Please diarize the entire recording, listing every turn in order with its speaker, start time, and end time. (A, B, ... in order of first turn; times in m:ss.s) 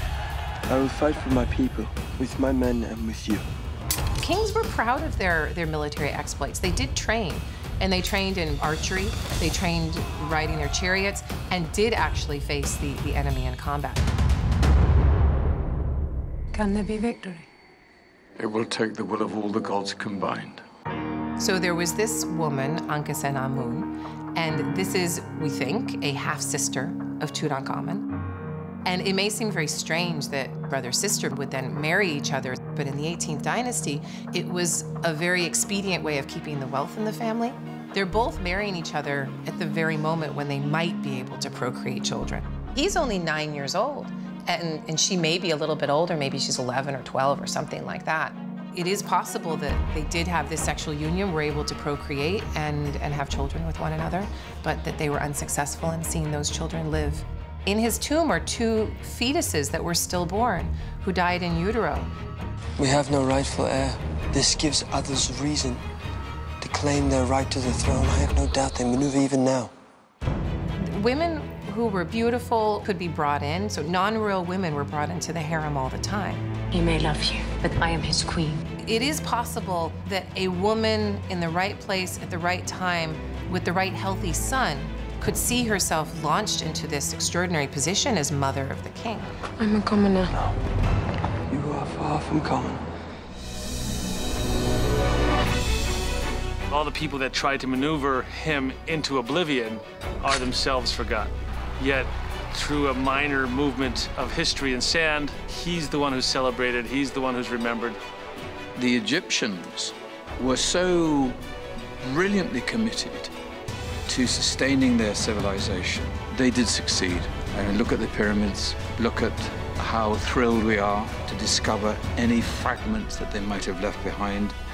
0:00.7-0:03.4 A
0:04.2-0:14.1 B
0:16.5-0:17.5 C
0:18.4-0:20.6 D
0:21.4-0:28.0 B
0:28.9-1:02.1 B
1:02.8-1:05.8 A
1:06.6-1:09.7 A
1:10.8-1:16.4 B
1:16.7-1:18.6 C
1:18.8-1:29.3 B
1:29.6-1:30.3 C
1:30.3-1:30.6 A
1:31.5-1:32.8 A
1:36.7-1:48.0 E
1:48.8-1:51.4 D
1:52.0-1:53.3 D
1:54.1-2:04.6 D